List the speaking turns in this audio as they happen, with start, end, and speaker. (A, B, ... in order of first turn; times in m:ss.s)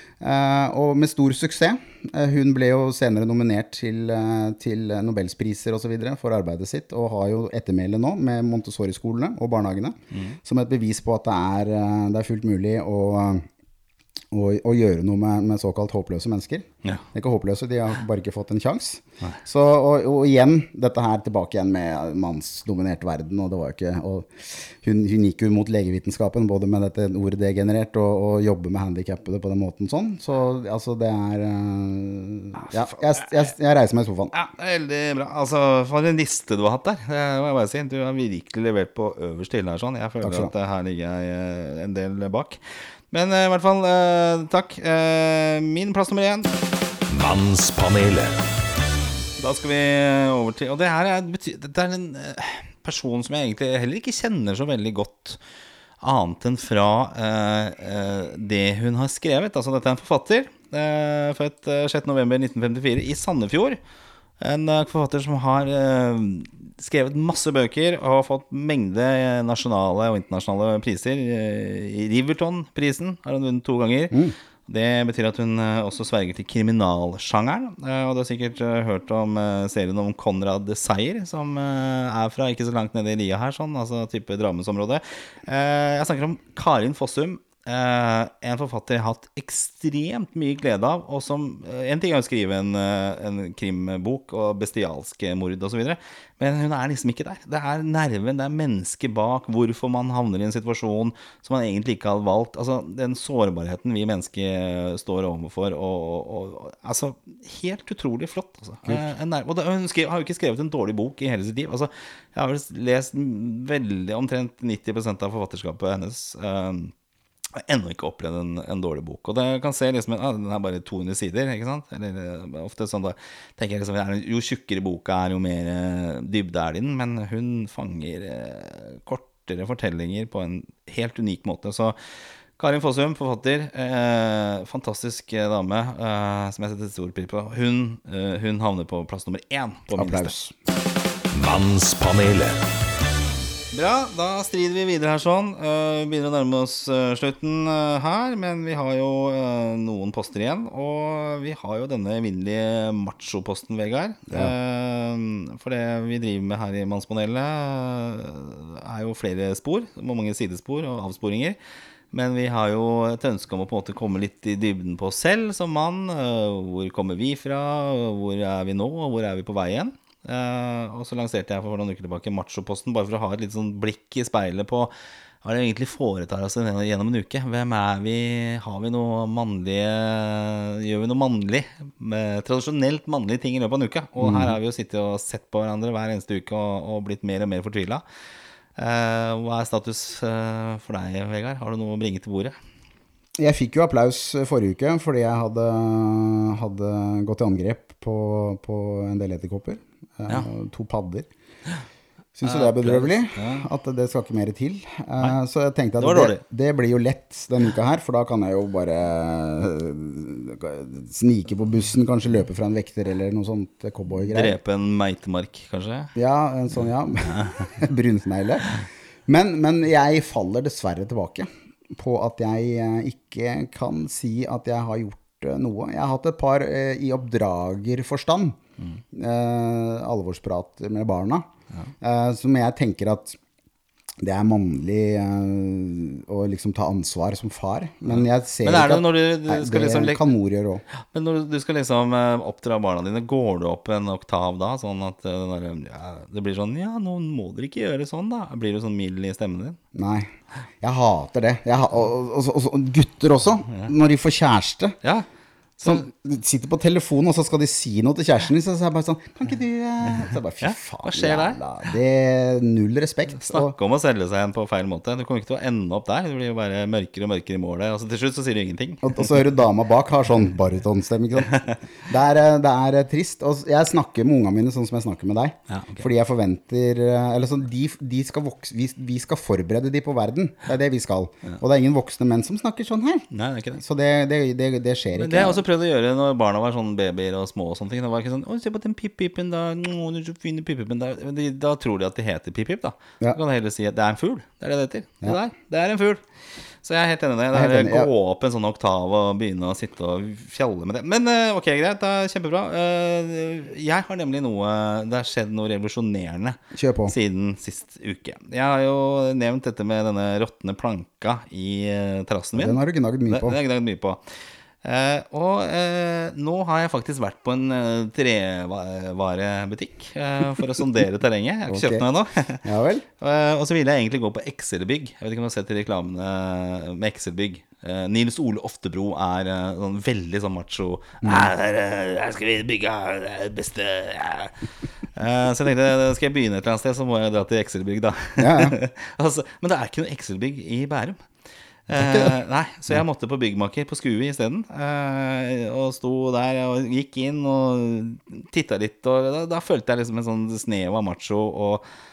0:00.2-0:13.5 A
0:10.1-0:10.4 B
0:14.3-0:34.3 A
0:34.3-0:42.6 B
0:40.2-0:40.5 A
0:43.1-0:46.5 B
0:47.1-0:48.4 C
0:49.4-0:55.4 B
0:56.0-1:03.8 B
1:04.4-1:56.9 B
1:57.6-2:12.0 B
2:12.6-2:20.3 B
2:19.9-2:20.5 A
2:21.3-2:22.6 C
2:23.7-2:41.6 B
2:42.1-2:54.9 B
2:55.4-3:08.0 B
3:04.2-3:04.6 A
3:08.8-3:12.6 B
3:13.4-3:21.3 A
3:22.4-3:34.6 A
3:22.4-3:23.7 B
3:26.0-3:26.4 B
3:34.3-3:36.1 B
3:36.2-3:48.6 A
3:37.2-3:37.8 B
3:49.1-3:51.5 A
3:52.0-3:53.4 A
3:54.2-4:00.8 A
3:58.1-4:00.2 B
4:01.0-4:09.8 B
4:10.0-4:10.3 A
4:10.8-4:15.0 A
4:15.8-4:16.1 B
4:15.8-4:23.7 A
4:20.6-4:21.9 B
4:23.3-4:29.3 B
4:29.0-4:45.6 A
4:31.5-4:31.8 B
4:35.7-4:36.1 B
4:43.3-4:43.8 B
4:45.2-4:56.2 B
4:56.8-5:14.2 B
4:57.5-4:58.1 A
5:06.7-5:07.1 A
5:12.6-5:13.6 A
5:14.8-5:22.7 B
5:21.7-5:22.0 A
5:22.6-5:23.1 A
5:23.2-5:41.2 B
5:31.2-5:31.5 A
5:38.4-5:38.8 A
5:41.9-5:51.8 B
5:42.0-5:42.3 A